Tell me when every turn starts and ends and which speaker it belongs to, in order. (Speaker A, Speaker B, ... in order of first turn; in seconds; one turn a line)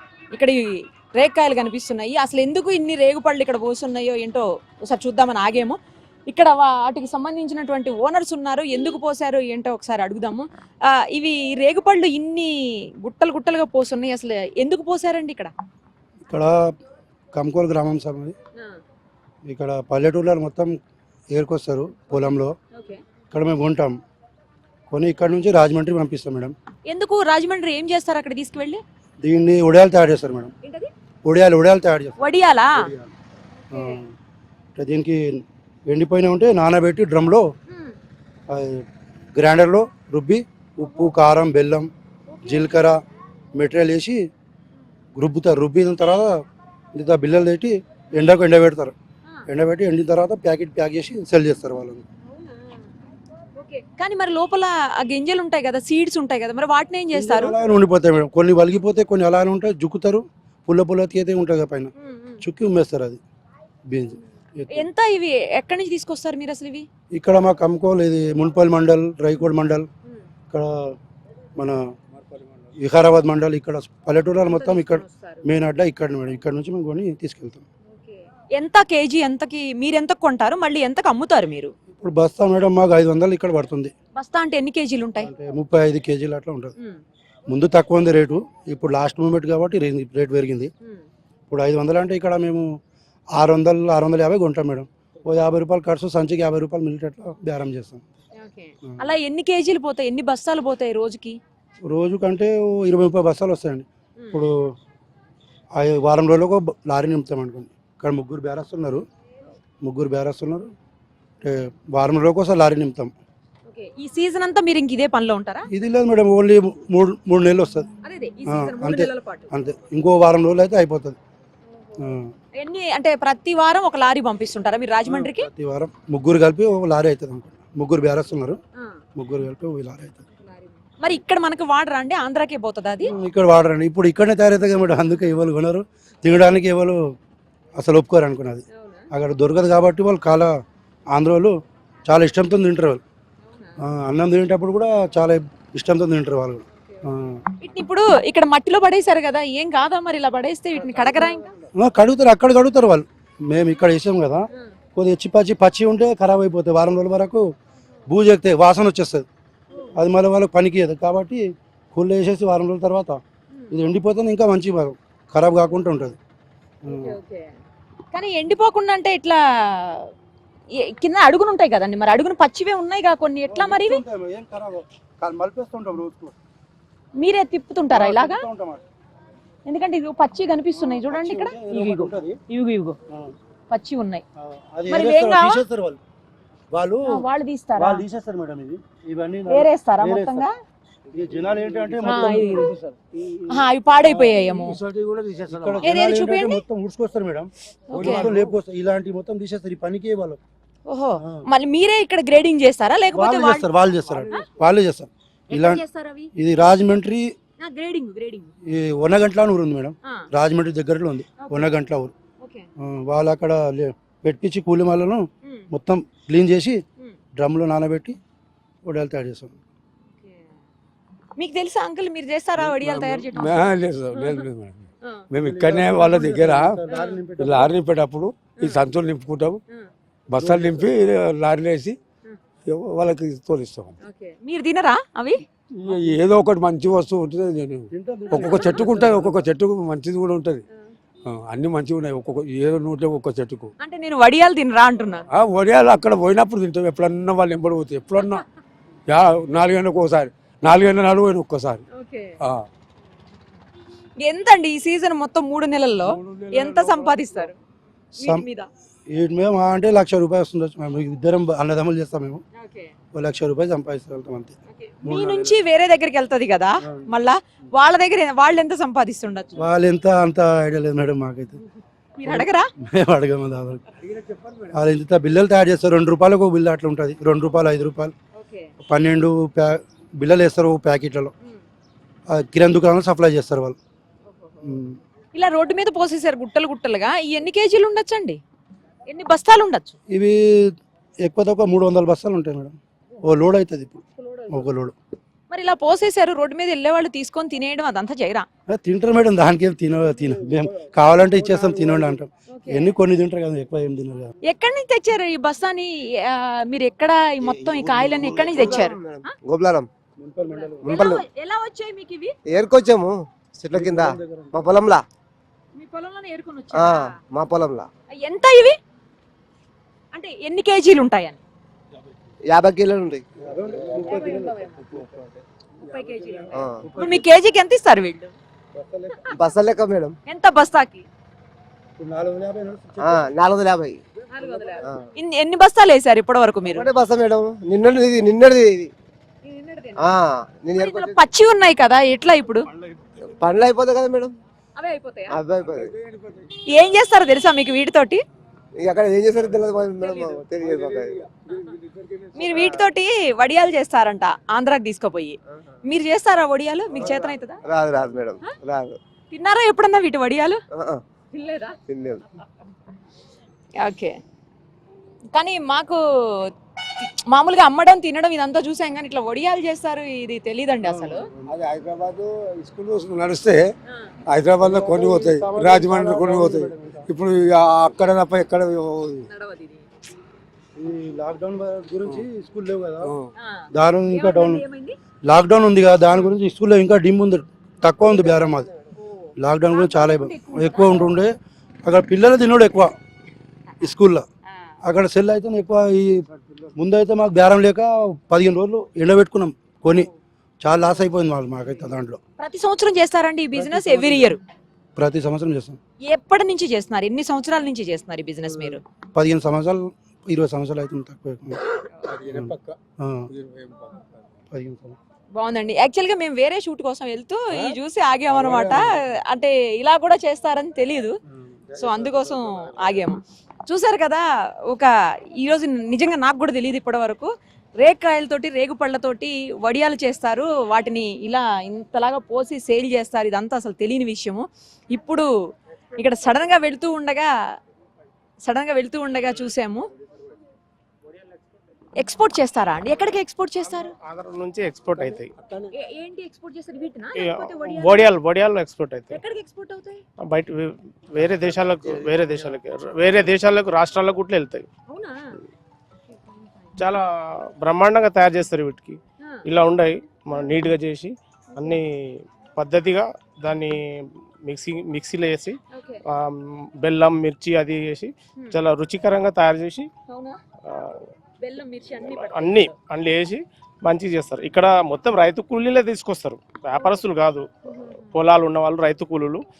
Speaker A: 0.3-0.6
Speaker A: 1.2-5.8
Speaker A: 6.3-12.5
Speaker A: 13.0-15.5
Speaker B: 16.3-16.7
Speaker B: 17.3-18.4
Speaker B: 19.5-20.8
Speaker B: 21.3-22.6
Speaker A: 22.7-23.0
Speaker B: 23.3-24.0
Speaker B: 24.9-26.6
Speaker A: 26.9-28.8
Speaker B: 29.2-30.5
Speaker A: 30.6-30.9
Speaker B: 31.2-32.2
Speaker A: 32.2-32.8
Speaker B: 32.8-33.1
Speaker A: 33.7-34.0
Speaker B: 33.7-34.1
Speaker B: 34.8-37.5
Speaker A: 37.7-38.0
Speaker B: 38.5-38.9
Speaker B: 39.4-41.9
Speaker A: 42.3-42.8
Speaker B: 42.5-43.0
Speaker B: 43.5-44.2
Speaker B: 45.1-46.4
Speaker B: 47.0-48.9
Speaker B: 49.5-52.0
Speaker A: 52.3-52.9
Speaker A: 53.5-57.5
Speaker B: 57.1-61.9
Speaker A: 62.0-62.4
Speaker B: 62.4-63.2
Speaker B: 63.9-64.9
Speaker A: 64.8-66.9
Speaker B: 67.1-69.9
Speaker B: 70.5-71.0
Speaker B: 71.6-71.8
Speaker B: 72.8-77.7
Speaker A: 74.4-75.4
Speaker A: 77.9-81.7
Speaker B: 81.9-83.9
Speaker A: 84.2-85.3
Speaker B: 85.2-86.7
Speaker B: 87.5-90.7
Speaker B: 91.5-92.7
Speaker B: 93.4-98.1
Speaker A: 98.4-101.4
Speaker B: 101.8-104.5
Speaker A: 104.2-104.4
Speaker B: 105.8-109.0
Speaker B: 109.8-110.7
Speaker B: 111.4-113.1
Speaker A: 113.7-115.7
Speaker B: 115.7-117.9
Speaker A: 118.0-119.5
Speaker B: 118.5-121.2
Speaker B: 122.0-122.3
Speaker A: 122.6-125.5
Speaker B: 125.0-128.6
Speaker B: 129.2-130.2
Speaker A: 130.4-133.1
Speaker B: 133.0-137.0
Speaker B: 137.8-140.5
Speaker A: 138.7-139.1
Speaker B: 141.1-141.5
Speaker B: 142.1-143.0
Speaker A: 143.4-143.8
Speaker B: 143.8-147.4
Speaker A: 147.6-151.5
Speaker B: 151.8-154.4
Speaker B: 154.9-157.5
Speaker B: 158.1-159.2
Speaker B: 159.9-163.2
Speaker B: 163.7-166.2
Speaker B: 166.9-167.2
Speaker A: 166.9-167.5
Speaker A: 168.1-170.1
Speaker A: 170.8-174.0
Speaker B: 173.5-176.3
Speaker A: 177.2-178.4
Speaker B: 177.9-178.8
Speaker A: 179.7-182.9
Speaker B: 180.8-182.4
Speaker A: 183.7-184.2
Speaker B: 184.3-186.0
Speaker A: 184.9-185.6
Speaker B: 186.7-187.2
Speaker A: 187.1-188.0
Speaker B: 187.8-190.5
Speaker A: 189.5-190.5
Speaker B: 191.1-193.0
Speaker A: 192.0-192.7
Speaker A: 193.5-194.8
Speaker B: 194.1-194.3
Speaker C: 194.3-195.8
Speaker B: 195.5-200.4
Speaker A: 195.8-196.6
Speaker A: 197.9-198.2
Speaker C: 197.9-198.6
Speaker A: 200.9-204.4
Speaker B: 203.1-205.8
Speaker A: 205.5-206.3
Speaker B: 206.3-207.3
Speaker A: 207.6-208.5
Speaker B: 208.6-212.1
Speaker A: 211.4-211.7
Speaker A: 212.4-212.7
Speaker B: 212.8-216.8
Speaker A: 215.4-215.7
Speaker B: 217.3-218.2
Speaker B: 218.8-219.5
Speaker A: 220.1-220.5
Speaker A: 221.4-224.4
Speaker C: 222.6-226.8
Speaker B: 222.9-223.2
Speaker B: 225.4-227.8
Speaker A: 226.9-227.2
Speaker C: 227.4-229.6
Speaker C: 230.3-232.0
Speaker B: 230.4-230.9
Speaker C: 232.7-233.9
Speaker A: 234.0-235.4
Speaker C: 235.8-240.6
Speaker B: 237.9-239.4
Speaker C: 241.2-243.7
Speaker A: 243.8-245.2
Speaker C: 245.3-248.4
Speaker C: 249.1-251.8
Speaker A: 251.9-252.4
Speaker A: 254.2-257.6
Speaker C: 256.1-257.5
Speaker A: 258.2-258.7
Speaker B: 259.1-262.4
Speaker A: 262.6-262.9
Speaker B: 263.1-265.6
Speaker A: 264.7-269.6
Speaker B: 269.6-271.6
Speaker A: 272.2-272.7
Speaker B: 272.2-273.9
Speaker C: 274.1-274.7
Speaker B: 274.7-278.1
Speaker A: 278.3-278.7
Speaker B: 278.8-281.3
Speaker B: 282.3-283.8
Speaker A: 284.3-284.6
Speaker B: 284.6-285.0
Speaker A: 285.3-288.4
Speaker A: 289.1-289.9
Speaker B: 290.1-294.9
Speaker A: 294.2-294.6
Speaker A: 295.5-298.4
Speaker B: 298.7-304.3
Speaker A: 302.5-302.9
Speaker A: 304.4-309.3
Speaker D: 307.6-309.9
Speaker B: 308.1-308.6
Speaker B: 310.2-311.0
Speaker A: 310.5-312.3
Speaker D: 310.9-311.2
Speaker D: 312.5-315.0
Speaker B: 313.7-314.7
Speaker A: 315.8-317.1
Speaker D: 316.8-317.9
Speaker A: 318.1-318.8
Speaker A: 320.1-321.4
Speaker D: 322.4-323.2
Speaker B: 323.4-325.2
Speaker A: 324.0-324.8
Speaker A: 325.8-328.3
Speaker B: 326.0-327.3
Speaker D: 326.5-326.8
Speaker B: 328.8-329.4
Speaker D: 329.3-330.1
Speaker A: 330.3-331.1
Speaker B: 332.0-333.2
Speaker D: 333.0-334.0
Speaker A: 334.3-336.9
Speaker D: 336.7-338.9
Speaker A: 339.4-340.1
Speaker D: 340.0-341.2
Speaker A: 340.8-342.6
Speaker D: 343.4-344.3
Speaker A: 344.8-345.4
Speaker D: 345.3-345.9
Speaker C: 345.9-346.3
Speaker A: 346.7-348.2
Speaker D: 348.8-351.3
Speaker A: 352.4-357.6
Speaker D: 352.4-352.8
Speaker D: 356.9-359.0
Speaker A: 359.3-360.6
Speaker D: 360.8-361.0
Speaker A: 361.3-361.8
Speaker D: 361.9-362.2
Speaker A: 363.8-364.2
Speaker A: 365.3-371.3
Speaker B: 370.8-371.6
Speaker C: 371.5-373.7
Speaker C: 374.2-379.2
Speaker B: 374.6-377.1
Speaker A: 379.3-379.9
Speaker B: 380.8-383.1
Speaker C: 383.0-383.3
Speaker A: 383.4-385.0
Speaker B: 383.7-384.6
Speaker B: 385.2-388.7
Speaker A: 389.0-391.1
Speaker B: 389.4-392.9
Speaker B: 393.8-394.2
Speaker B: 394.8-400.1
Speaker B: 400.6-402.2
Speaker A: 402.4-404.4
Speaker B: 403.5-404.4
Speaker B: 405.0-405.8
Speaker A: 406.1-408.8
Speaker B: 409.1-411.6
Speaker C: 412.0-412.8
Speaker B: 412.3-413.3
Speaker C: 413.3-414.1
Speaker B: 414.5-415.0
Speaker A: 415.4-421.1
Speaker C: 418.4-418.8
Speaker C: 421.8-422.7
Speaker A: 421.8-435.3
Speaker A: 436.0-437.3
Speaker A: 438.5-439.9
Speaker A: 442.0-443.9
Speaker E: 444.0-445.3
Speaker A: 445.7-448.1
Speaker E: 447.2-449.2
Speaker A: 449.1-450.0
Speaker E: 450.3-454.7
Speaker A: 454.9-455.4
Speaker A: 456.1-456.7
Speaker E: 457.6-465.6
Speaker A: 465.7-466.0
Speaker E: 466.1-469.9
Speaker A: 470.1-470.4
Speaker E: 470.7-471.0
Speaker A: 471.4-472.7
Speaker E: 472.0-477.4
Speaker A: 476.7-477.0
Speaker A: 477.7-478.1
Speaker E: 478.1-479.4